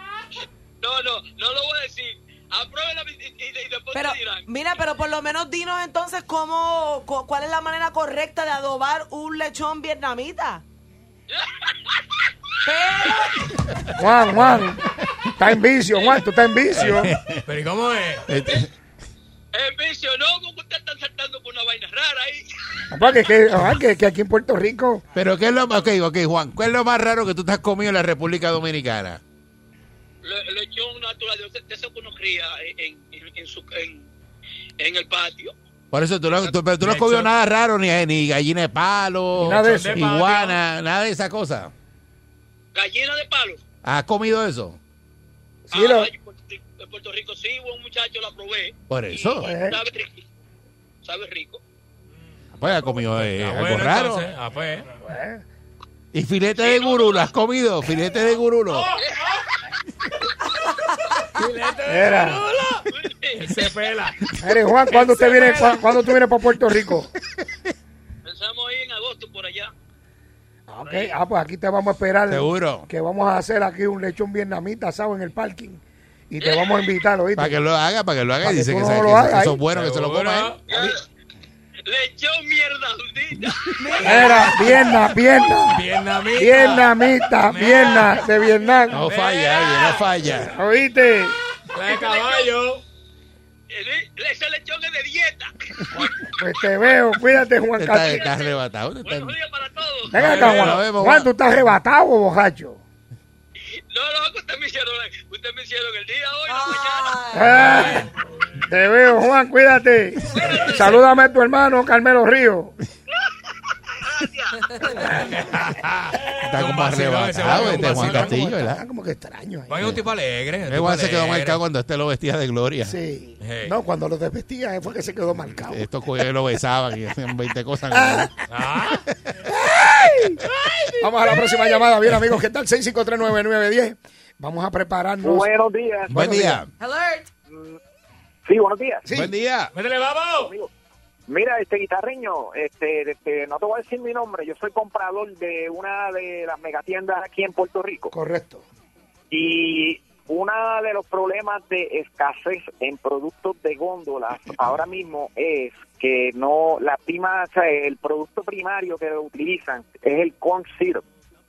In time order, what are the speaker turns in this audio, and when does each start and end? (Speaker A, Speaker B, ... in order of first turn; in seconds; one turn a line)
Speaker A: 0.8-4.5
Speaker B: 3.9-10.6
Speaker A: 11.3-12.3
Speaker B: 12.6-13.5
Speaker C: 14.0-14.8
Speaker D: 14.3-14.7
Speaker C: 15.4-17.1
Speaker E: 16.7-17.4
Speaker D: 17.4-18.3
Speaker E: 18.3-18.7
Speaker A: 19.5-22.4
Speaker C: 22.9-25.0
Speaker E: 25.1-29.2
Speaker A: 30.2-34.1
Speaker A: 34.8-35.5
Speaker E: 35.9-41.7
Speaker D: 36.8-37.3
Speaker C: 39.4-40.1
Speaker D: 39.5-40.6
Speaker A: 42.7-43.6
Speaker E: 43.8-44.8
Speaker C: 45.7-46.1
Speaker A: 45.7-50.2
Speaker E: 48.9-49.5
Speaker C: 49.4-49.8
Speaker A: 51.0-51.6
Speaker E: 52.6-54.3
Speaker D: 52.9-54.9
Speaker C: 55.0-55.4
Speaker E: 56.1-58.9
Speaker A: 56.6-57.2
Speaker D: 58.7-59.0
Speaker A: 59.0-59.4
Speaker D: 61.2-64.2
Speaker C: 61.9-62.4
Speaker A: 62.9-63.6
Speaker C: 64.4-67.1
Speaker A: 65.0-65.8
Speaker E: 67.4-67.7
Speaker A: 68.2-69.7
Speaker C: 70.7-77.6
Speaker A: 70.8-71.2
Speaker E: 72.3-72.9
Speaker A: 76.4-76.9
Speaker E: 77.3-80.9
Speaker C: 78.4-79.6
Speaker D: 79.7-80.6
Speaker A: 80.7-81.0
Speaker A: 81.9-84.5
Speaker E: 83.4-83.9
Speaker B: 83.8-84.6
Speaker C: 84.0-89.0
Speaker D: 85.7-88.2
Speaker E: 88.9-90.5
Speaker D: 89.0-90.1
Speaker C: 90.3-91.4
Speaker D: 91.7-92.8
Speaker A: 91.8-92.5
Speaker A: 93.7-96.3
Speaker C: 96.0-98.3
Speaker E: 97.8-99.4
Speaker A: 98.0-100.2
Speaker C: 100.1-102.8
Speaker D: 100.2-100.8
Speaker E: 100.2-101.3
Speaker A: 103.9-107.4
Speaker B: 106.5-108.0
Speaker C: 107.3-108.1
Speaker D: 107.5-108.0
Speaker C: 108.7-112.8
Speaker A: 110.3-111.1
Speaker D: 110.5-111.0
Speaker A: 113.3-115.2
Speaker B: 114.7-115.1
Speaker D: 115.1-118.3
Speaker E: 116.4-118.8
Speaker C: 117.4-120.0
Speaker D: 119.7-121.6
Speaker E: 120.7-123.0
Speaker C: 122.8-125.9
Speaker D: 123.4-123.7
Speaker E: 125.7-128.3
Speaker C: 127.9-128.9
Speaker D: 128.5-129.1
Speaker C: 129.5-130.4
Speaker C: 131.0-135.5
Speaker F: 135.2-136.2
Speaker E: 136.1-136.7
Speaker C: 136.1-136.6
Speaker B: 136.8-137.3
Speaker F: 137.5-137.8
Speaker F: 138.4-139.1
Speaker C: 139.1-139.3
Speaker E: 139.1-139.7
Speaker D: 139.7-140.5
Speaker F: 140.4-140.7
Speaker F: 141.3-148.1
Speaker C: 148.1-148.6
Speaker F: 149.3-161.0